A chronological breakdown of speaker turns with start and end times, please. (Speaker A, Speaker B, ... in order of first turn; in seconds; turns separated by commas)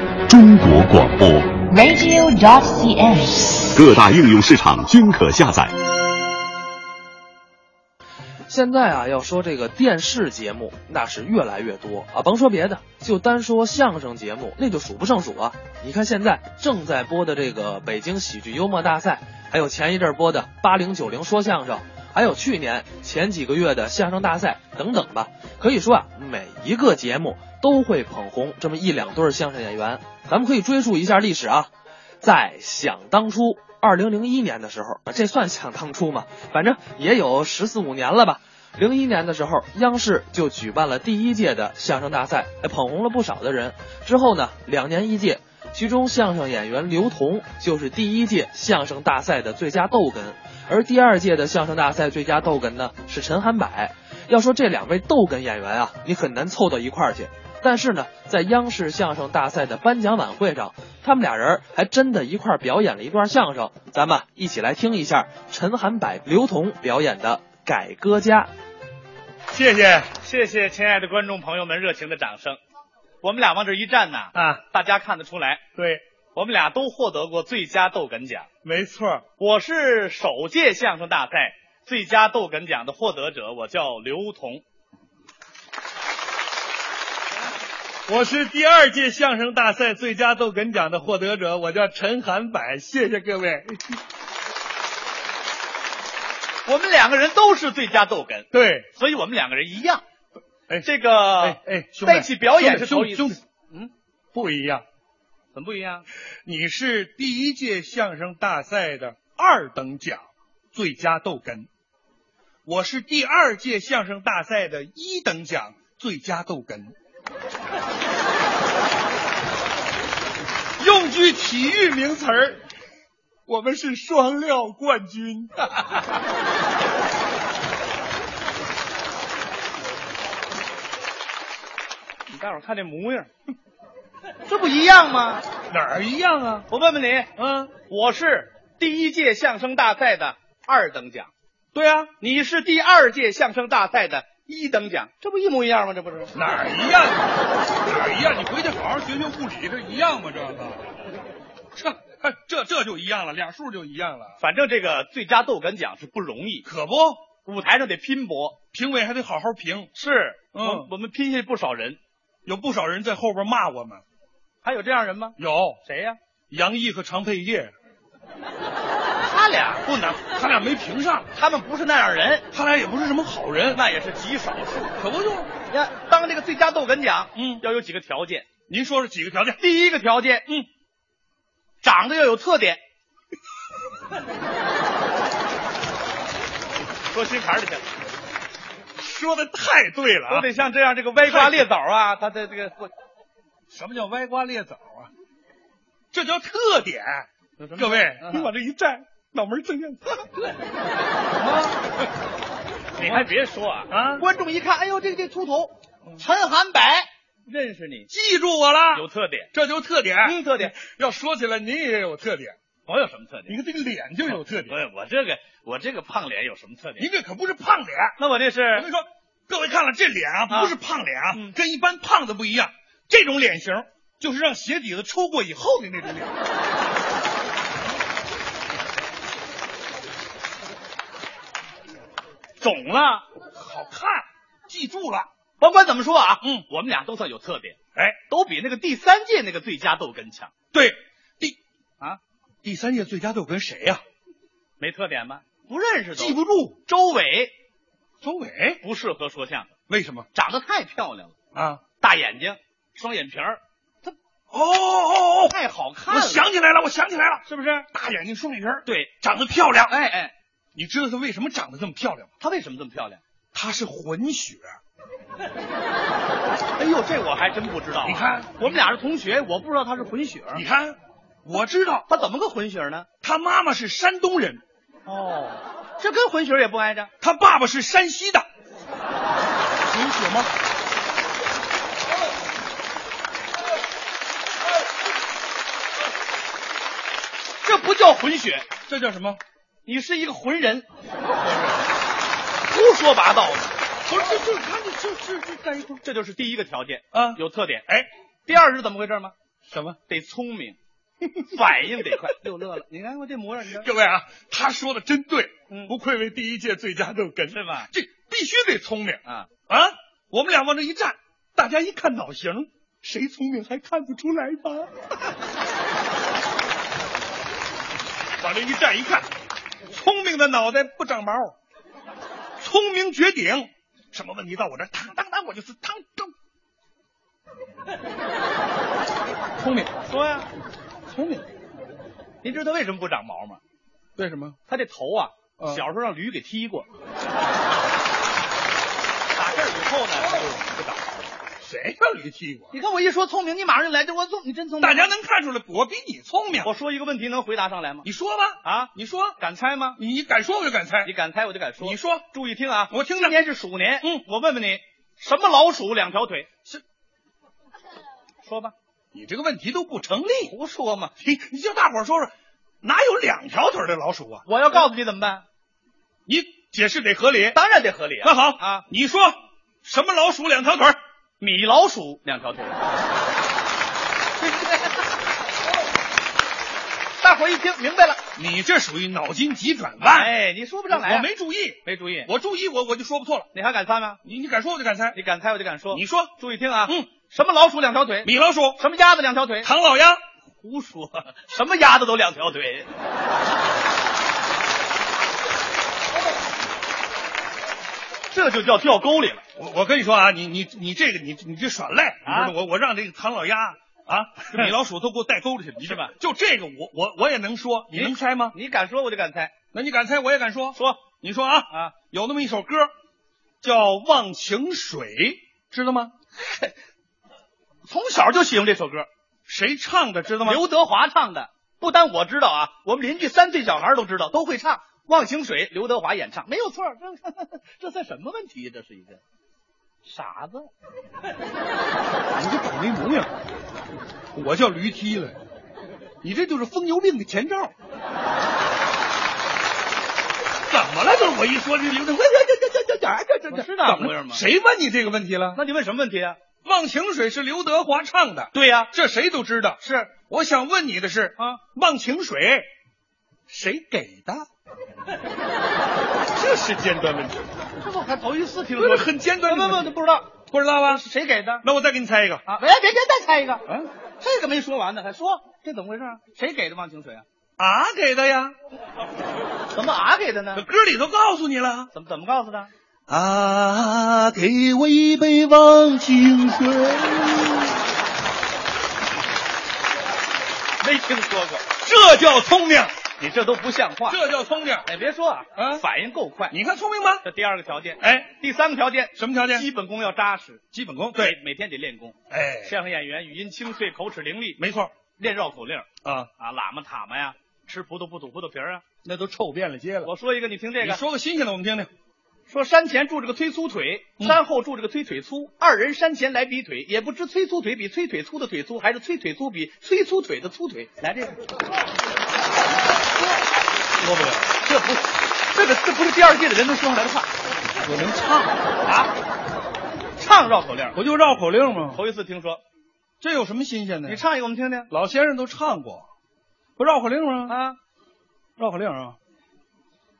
Speaker A: 0.3-1.7, Speaker B: 1.7-3.6, Speaker A: 3.7-5.7, Speaker C: 8.5-31.7, Speaker C: 32.2-68.5, Speaker D: 69.5-70.1, Speaker E: 70.2-72.6, Speaker E: 73.2-75.6, Speaker D: 74.3-74.6, Speaker D: 75.8-76.0, Speaker E: 76.3-78.5, Speaker D: 78.6-79.2, Speaker E: 79.4-84.6, Speaker D: 88.1-94.0, Speaker E: 96.6-100.0, Speaker D: 98.5-98.9, Speaker D: 100.7-103.4, Speaker E: 100.8-103.9, Speaker D: 104.3-104.8, Speaker E: 105.5-106.1, Speaker D: 106.4-111.7, Speaker D: 112.7-116.9, Speaker D: 120.8-122.6, Speaker D: 123.5-126.0, Speaker E: 132.3-133.3, Speaker E: 134.4-135.4, Speaker D: 135.7-136.7, Speaker E: 136.7-137.3, Speaker D: 137.4-137.7, Speaker E: 137.9-141.3, Speaker D: 141.7-142.1, Speaker E: 142.2-146.3, Speaker D: 146.3-147.3, Speaker D: 147.8-150.8, Speaker D: 151.8-154.4, Speaker E: 154.4-156.7, Speaker D: 156.6-157.2, Speaker E: 157.4-158.6, Speaker D: 158.7-159.9, Speaker E: 159.9-162.0, Speaker D: 160.5-160.9, Speaker D: 162.4-164.0, Speaker E: 164.6-166.2, Speaker D: 165.4-165.8, Speaker D: 166.5-167.7, Speaker E: 169.2-170.2, Speaker D: 170.2-171.3, Speaker E: 171.3-172.4, Speaker D: 172.5-173.8, Speaker E: 173.7-175.0, Speaker D: 175.0-175.5, Speaker E: 175.7-178.4, Speaker D: 177.3-177.6, Speaker D: 178.7-179.6, Speaker E: 179.6-180.5, Speaker E: 181.8-182.8, Speaker E: 187.1-187.9, Speaker D: 189.0-190.5, Speaker E: 190.3-192.9, Speaker D: 191.2-191.7, Speaker D: 193.7-195.1, Speaker D: 196.1-200.3, Speaker E: 197.6-198.5, Speaker E: 202.9-208.1, Speaker D: 203.0-203.3, Speaker D: 203.9-204.2, Speaker D: 208.1-212.5, Speaker E: 208.9-209.5, Speaker E: 210.2-210.8, Speaker E: 212.8-213.6, Speaker D: 213.5-214.8, Speaker E: 214.2-217.1, Speaker D: 217.0-218.2, Speaker E: 218.2-218.9, Speaker D: 218.7-226.4, Speaker E: 220.5-220.7, Speaker E: 232.6-233.2, Speaker D: 233.6-235.3, Speaker E: 235.6-237.8, Speaker E: 238.3-240.5, Speaker D: 240.7-241.6, Speaker D: 242.6-244.0, Speaker E: 244.8-247.5, Speaker D: 246.2-246.8, Speaker D: 248.2-248.8, Speaker E: 248.8-249.7, Speaker D: 249.9-250.3, Speaker E: 250.3-251.3, Speaker D: 251.5-251.8, Speaker E: 252.0-254.1, Speaker D: 254.5-255.5, Speaker E: 255.5-256.4, Speaker D: 256.1-259.9, Speaker E: 257.4-257.9, Speaker E: 258.8-259.1, Speaker E: 259.9-260.3, Speaker D: 260.7-262.3, Speaker E: 262.4-263.2, Speaker D: 263.5-264.8, Speaker E: 266.8-270.6, Speaker D: 268.0-268.8, Speaker D: 270.5-272.1, Speaker E: 272.1-273.1, Speaker D: 273.2-274.6, Speaker E: 275.1-277.1, Speaker D: 277.2-278.5, Speaker D: 279.8-280.5, Speaker E: 287.6-288.7, Speaker D: 288.9-289.4, Speaker E: 289.9-290.9, Speaker E: 292.7-293.7, Speaker D: 294.1-296.0, Speaker E: 296.0-297.9, Speaker D: 297.1-298.1, Speaker E: 298.5-299.3, Speaker D: 299.7-300.0, Speaker E: 300.1-300.8, Speaker E: 301.4-303.9, Speaker D: 303.7-315.2, Speaker E: 307.5-307.9, Speaker D: 318.4-319.3, Speaker D: 319.9-321.5, Speaker D: 322.6-326.3, Speaker D: 329.6-329.9, Speaker E: 330.0-330.5, Speaker D: 331.1-331.4, Speaker E: 332.4-333.6, Speaker D: 334.2-334.6, Speaker E: 334.7-336.9, Speaker E: 339.3-341.2, Speaker D: 341.6-342.7, Speaker E: 342.7-345.1, Speaker D: 344.8-346.7, Speaker E: 346.6-348.1, Speaker D: 348.0-349.4, Speaker E: 348.6-350.0, Speaker D: 350.0-351.1, Speaker E: 351.0-356.5, Speaker D: 351.8-352.2, Speaker D: 352.9-353.4, Speaker E: 358.4-358.7, Speaker D: 359.1-360.5, Speaker E: 360.4-361.1, Speaker D: 361.2-362.3, Speaker D: 362.8-364.4, Speaker E: 364.4-365.4, Speaker D: 366.3-367.6, Speaker E: 367.5-368.9, Speaker D: 368.2-371.0, Speaker E: 371.4-372.8, Speaker E: 374.4-375.1, Speaker E: 377.2-378.2, Speaker D: 378.4-380.3, Speaker E: 380.0-381.3, Speaker D: 380.9-383.5, Speaker E: 381.8-382.3, Speaker E: 383.5-384.2, Speaker D: 384.2-385.2, Speaker E: 385.1-389.7, Speaker D: 385.9-386.3, Speaker D: 388.2-388.8, Speaker D: 389.6-390.2, Speaker E: 390.6-392.9, Speaker E: 398.3-399.4, Speaker D: 399.6-408.5, Speaker E: 402.2-402.5, Speaker E: 405.8-406.1, Speaker E: 407.9-409.5, Speaker D: 409.7-412.9, Speaker E: 410.7-411.0, Speaker E: 411.7-411.9, Speaker D: 413.6-416.1, Speaker E: 416.4-416.7, Speaker E: 417.8-419.1, Speaker D: 419.5-420.6, Speaker E: 420.4-429.2, Speaker E: 430.0-430.7, Speaker D: 432.4-433.3, Speaker D: 434.3-435.4, Speaker D: 436.2-437.7, Speaker D: 440.7-445.6, Speaker E: 443.5-444.4, Speaker E: 445.5-446.4, Speaker D: 446.6-452.7, Speaker E: 448.5-448.9, Speaker E: 449.8-450.1, Speaker D: 453.5-454.5, Speaker D: 456.3-457.5, Speaker E: 457.8-460.3, Speaker D: 458.8-459.9, Speaker D: 460.5-461.0, Speaker E: 460.8-461.6, Speaker D: 461.6-462.4, Speaker E: 462.5-463.6, Speaker E: 464.2-467.2, Speaker D: 467.6-468.5, Speaker E: 469.7-470.6, Speaker D: 470.5-471.9, Speaker E: 471.9-472.7, Speaker D: 473.1-477.8, Speaker E: 480.8-481.6, Speaker D: 481.8-482.9, Speaker E: 483.2-484.2, Speaker D: 484.1-484.9, Speaker E: 484.8-486.6, Speaker D: 485.6-485.8, Speaker D: 486.5-487.2, Speaker E: 487.2-490.6, Speaker D: 488.0-488.3, Speaker D: 489.1-489.6, Speaker D: 490.7-491.4, Speaker E: 491.1-494.6, Speaker D: 492.3-492.7, Speaker D: 494.6-494.9, Speaker E: 495.2-495.9, Speaker D: 496.0-496.3, Speaker E: 496.4-498.8, Speaker D: 499.0-500.1, Speaker E: 500.0-501.0, Speaker D: 500.8-501.9, Speaker E: 502.5-511.4, Speaker E: 514.0-517.3, Speaker D: 517.8-518.6, Speaker E: 518.8-519.1, Speaker E: 520.2-521.0, Speaker D: 520.9-522.0, Speaker E: 521.9-522.6, Speaker D: 523.2-524.2, Speaker E: 524.0-524.9, Speaker D: 524.9-526.1, Speaker D: 526.8-527.5, Speaker E: 527.5-527.8, Speaker D: 528.6-529.1